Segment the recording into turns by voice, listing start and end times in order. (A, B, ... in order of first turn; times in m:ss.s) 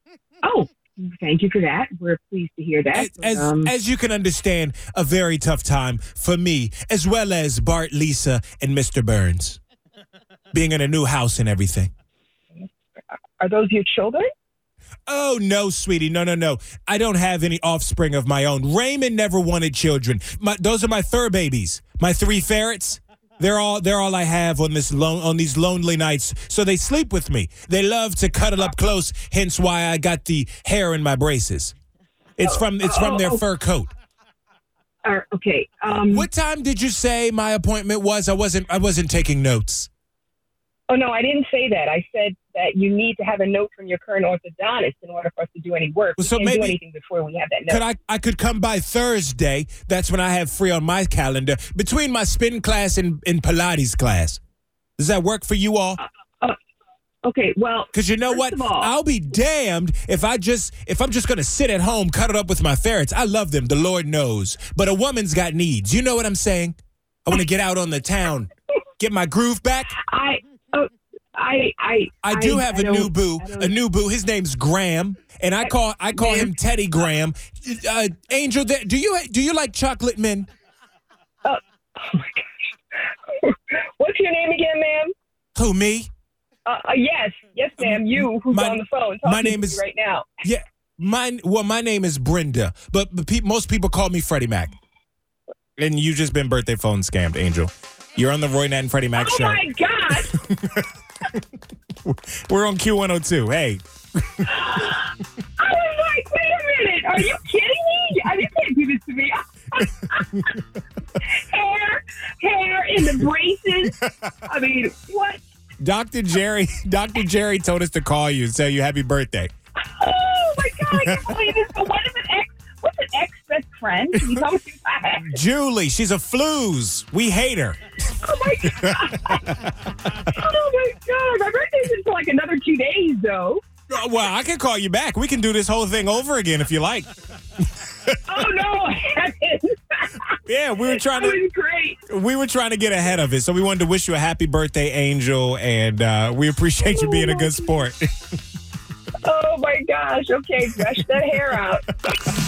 0:00.4-0:03.7 A
0:02.9-0:09.6 B
0:10.5-0:11.9 B
0:12.5-0:14.3 A
0:15.1-0:31.7 B
0:32.4-0:33.9 B
0:32.4-0:33.4 A
0:35.0-0:36.3 A
0:36.1-0:39.9 B
0:40.9-0:47.8 A
0:46.2-0:46.8 B
0:47.7-0:54.4 B
0:55.0-0:56.0 B
0:56.0-0:56.6 A
0:57.2-0:58.9 A
0:57.9-1:10.0 B
1:10.0-1:13.8 A
1:12.2-1:20.5 B
1:15.6-1:16.5 A
1:21.4-1:22.5 A
1:23.3-1:25.1 A
1:25.6-1:26.1 B
1:26.6-1:30.3 A
1:27.8-1:29.8 B
1:30.4-1:34.7 B
1:35.8-1:39.6 B
1:39.2-1:40.4 A
1:40.3-1:40.8 B
1:42.0-1:44.5 B
1:44.4-1:50.5 A
1:51.2-1:55.4 A
1:55.8-1:59.5 B
1:59.8-2:05.4 A
2:00.9-2:01.2 B
2:05.2-2:07.8 B
2:08.2-2:09.4 A
2:10.3-2:13.6 A
2:13.9-2:17.1 B
2:18.3-2:22.0 A
2:20.4-2:21.4 B
2:22.1-2:28.1 B
2:26.8-2:27.9 A
2:29.2-2:31.8 A